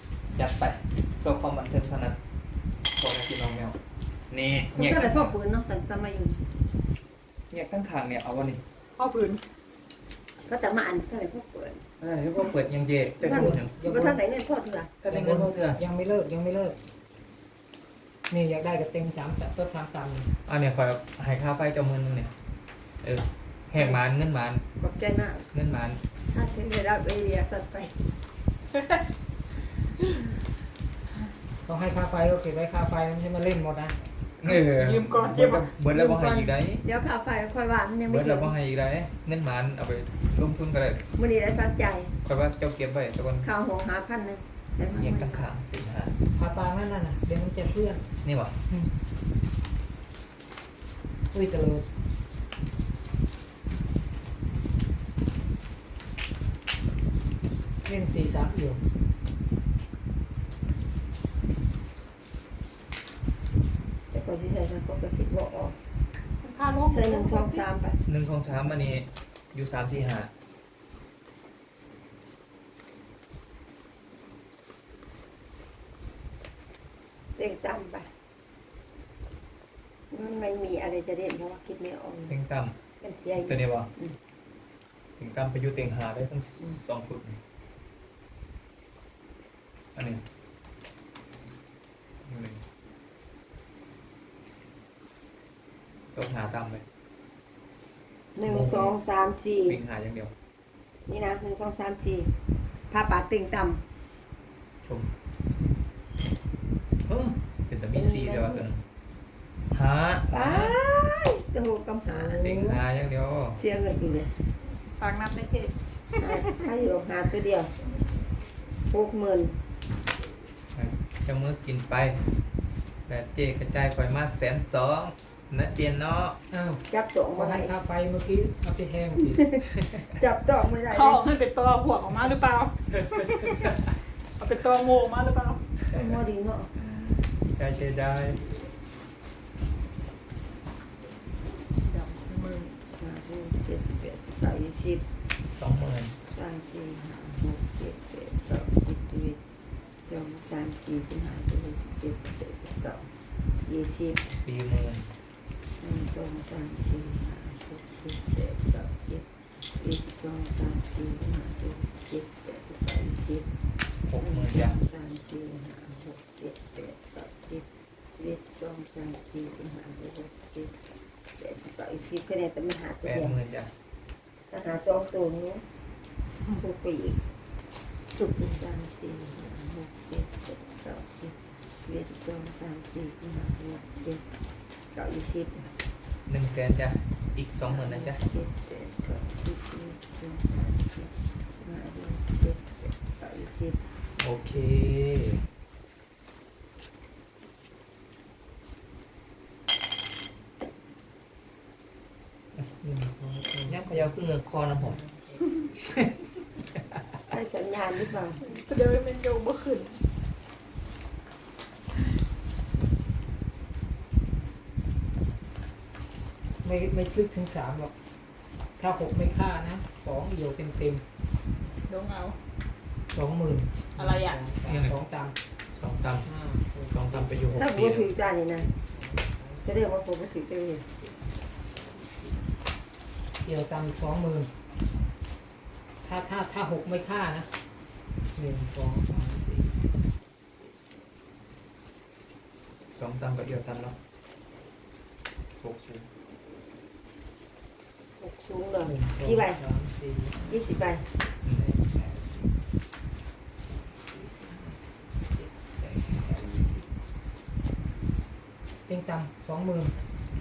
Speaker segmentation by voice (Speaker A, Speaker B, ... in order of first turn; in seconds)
Speaker A: 0.3-2.2, 2.9-3.8, 4.3-5.3, 7.5-8.6, 12.0-13.8, 15.0-15.8, 20.4-22.3, 23.0-24.6, 25.5-26.0, 34.4-36.8, 38.1-41.1, 42.2-43.5, 44.9-46.1, 48.2-48.6, 68.0-70.3, 82.3-82.8, 83.4-83.9, 85.2-87.4, 89.9-90.2, 92.2-92.6, 96.1-96.8, 98.4-99.0, 99.7-100.3, 104.8-105.1, 107.1-108.8, 109.7-110.8, 112.3-113.6, 120.7-122.2, 123.1-126.4, 135.8-136.2, 136.9-138.5, 145.5-146.2, 154.2-155.1, 164.0-164.8, 173.0-173.7, 186.3-188.2, 194.2-195.4, 203.7-205.0, 224.6-224.9, 225.7-226.3, 226.9-228.1, 242.9-244.0, 245.6-246.1, 251.4-251.8
Speaker B: 4.7-6.4, 10.4-11.8, 13.2-14.9, 24.8-25.5, 26.3-28.0, 35.9-38.5, 41.1-42.2, 43.4-45.4, 64.1-65.8, 66.7-68.0, 77.3-78.1, 80.1-82.3, 83.0-84.2, 98.3-99.8, 101.1-102.3, 102.9-103.8, 107.9-108.7, 110.3-112.6, 113.5-114.3, 116.2-117.8, 118.9-119.6, 126.9-127.7, 129.2-129.6, 130.1-131.2, 135.9-136.7, 142.9-145.0, 146.3-149.4, 150.0-154.2, 155.8-163.5, 164.2-170.8, 171.4-173.3, 174.5-175.6, 176.5-177.2, 178.3-184.3, 184.9-185.7, 187.7-193.8, 207.3-208.4, 227.5-228.7, 229.6-230.8, 248.2-249.6, 250.4-251.1
Speaker C: 9.0-9.4, 34.4-35.7, 66.4-67.6, 115.0-116.5, 130.9-135.7, 141.8-142.8, 178.1-178.5, 208.4-210.0, 221.8-222.4, 224.0-224.4
Speaker D: 13.2-14.2, 15.1-16.8, 18.3-20.3, 31.6-34.0, 46.3-48.1, 51.3-51.8, 57.8-58.8, 112.1-112.8, 126.5-126.8, 127.3-129.4, 202.6-204.1, 204.7-205.5, 216.6-217.9, 218.8-221.0, 223.1-225.3, 226.2-227.5, 228.7-229.7, 230.9-232.4, 233.4-234.5, 236.0-237.5, 238.3-239.9, 248.8-250.6, 251.7-252.5, 253.7-256.9, 258.9-259.9